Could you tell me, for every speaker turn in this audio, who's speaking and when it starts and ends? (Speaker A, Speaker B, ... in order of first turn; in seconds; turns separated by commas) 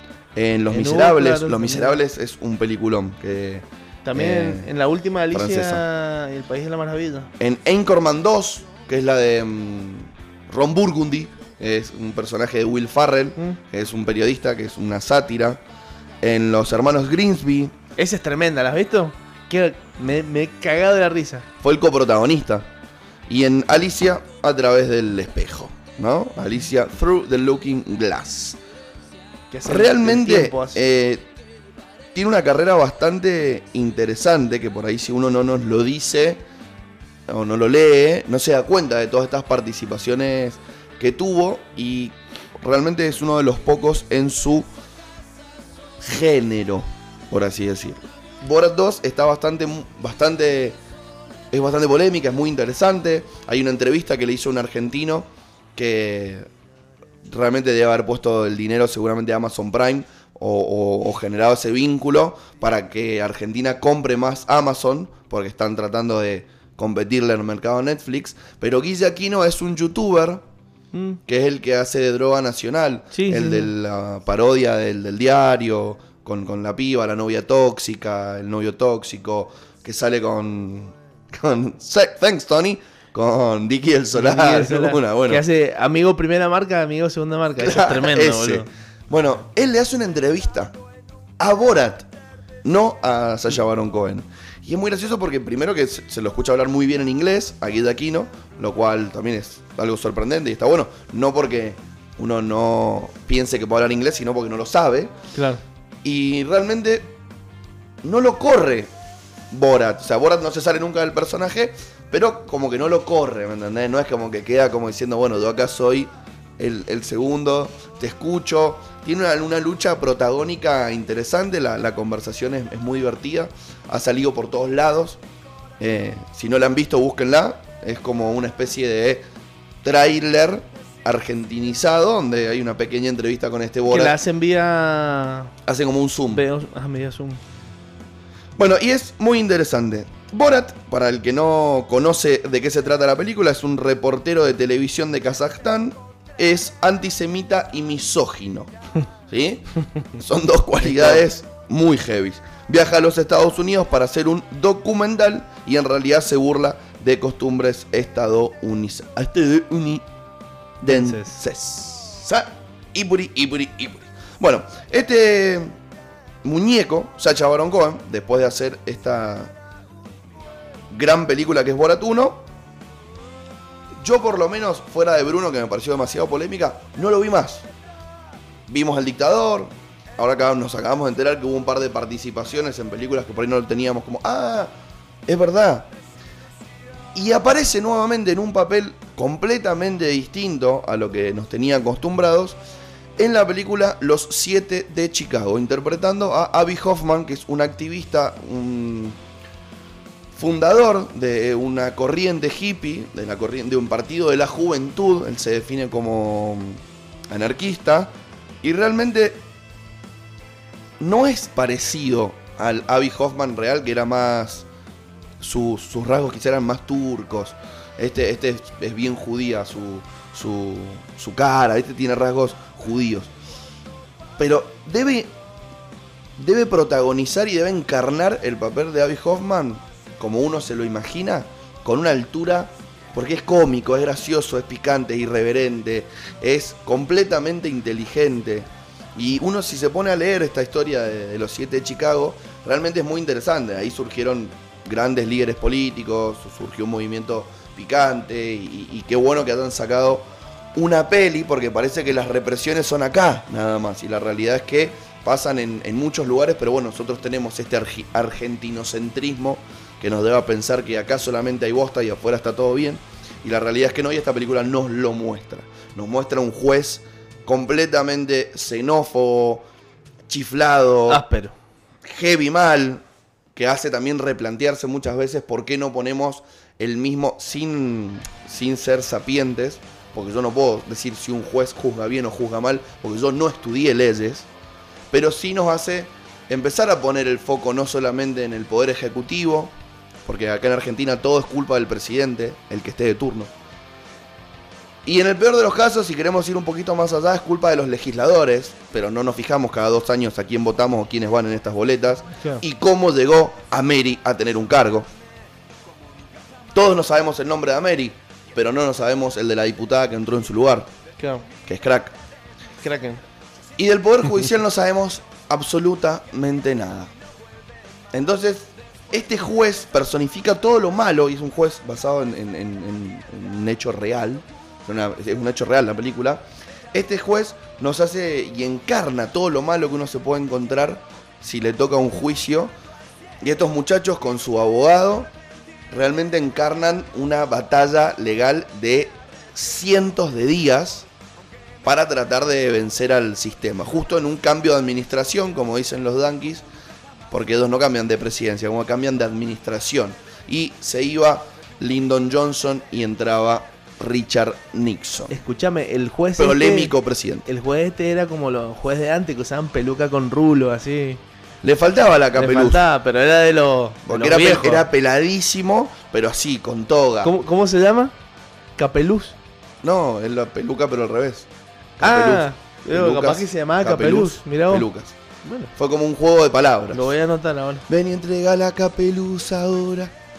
Speaker A: 0.3-4.7, Speaker B: 0.7-2.0, Speaker B: 4.0-7.3, Speaker A: 5.3-5.8, Speaker A: 7.4-15.6, Speaker A: 16.2-17.7, Speaker B: 18.0-21.4, Speaker A: 21.6-22.7, Speaker A: 23.3-28.6, Speaker B: 29.5-30.8, Speaker A: 29.6-31.3, Speaker A: 32.1-36.4, Speaker A: 37.3-44.7, Speaker A: 46.0-50.8, Speaker A: 51.5-56.5, Speaker A: 57.2-70.4, Speaker B: 70.9-71.2, Speaker A: 71.3-85.4, Speaker B: 73.1-73.7, Speaker B: 84.1-88.7, Speaker A: 87.6-90.7, Speaker A: 91.4-92.1, Speaker A: 92.6-105.1, Speaker B: 105.3-105.6, Speaker A: 106.0-107.1, Speaker A: 108.0-108.9, Speaker A: 109.5-125.2, Speaker A: 125.8-129.2, Speaker A: 129.8-134.2, Speaker B: 133.8-135.5, Speaker A: 135.7-136.4, Speaker B: 136.3-137.4, Speaker A: 138.6-148.7, Speaker A: 149.3-160.0, Speaker A: 160.8-165.7, Speaker B: 160.9-161.4, Speaker A: 166.4-169.5, Speaker A: 170.9-172.4, Speaker A: 174.0-177.7, Speaker A: 178.7-184.7, Speaker A: 185.2-185.9, Speaker A: 187.1-192.6, Speaker A: 193.2-199.2, Speaker A: 200.3-209.4, Speaker A: 211.0-214.7, Speaker A: 215.4-223.3, Speaker A: 224.4-225.3, Speaker A: 226.4-269.6, Speaker A: 270.3-271.2, Speaker B: 271.1-271.5, Speaker A: 272.0-273.0, Speaker A: 273.5-284.5, Speaker A: 285.1-289.7, Speaker A: 290.2-293.5, Speaker A: 295.0-305.1, Speaker B: 302.4-302.6, Speaker A: 306.7-310.9, Speaker B: 311.2-311.4, Speaker A: 311.6-312.1, Speaker B: 312.8-313.2, Speaker A: 313.8-317.1, Speaker A: 318.1-332.7, Speaker A: 333.4-335.3, Speaker A: 335.9-341.1, Speaker A: 341.8-346.6, Speaker A: 347.3-355.4, Speaker B: 355.3-356.9, Speaker A: 356.4-357.5, Speaker B: 357.4-361.2, Speaker A: 361.6-362.8, Speaker B: 362.3-364.9, Speaker A: 364.1-367.3, Speaker B: 367.2-368.1, Speaker B: 368.8-369.4, Speaker A: 369.8-371.5, Speaker A: 372.0-375.1, Speaker B: 372.0-374.9, Speaker B: 375.4-375.7, Speaker A: 375.7-377.1, Speaker B: 376.9-377.9, Speaker A: 377.9-380.1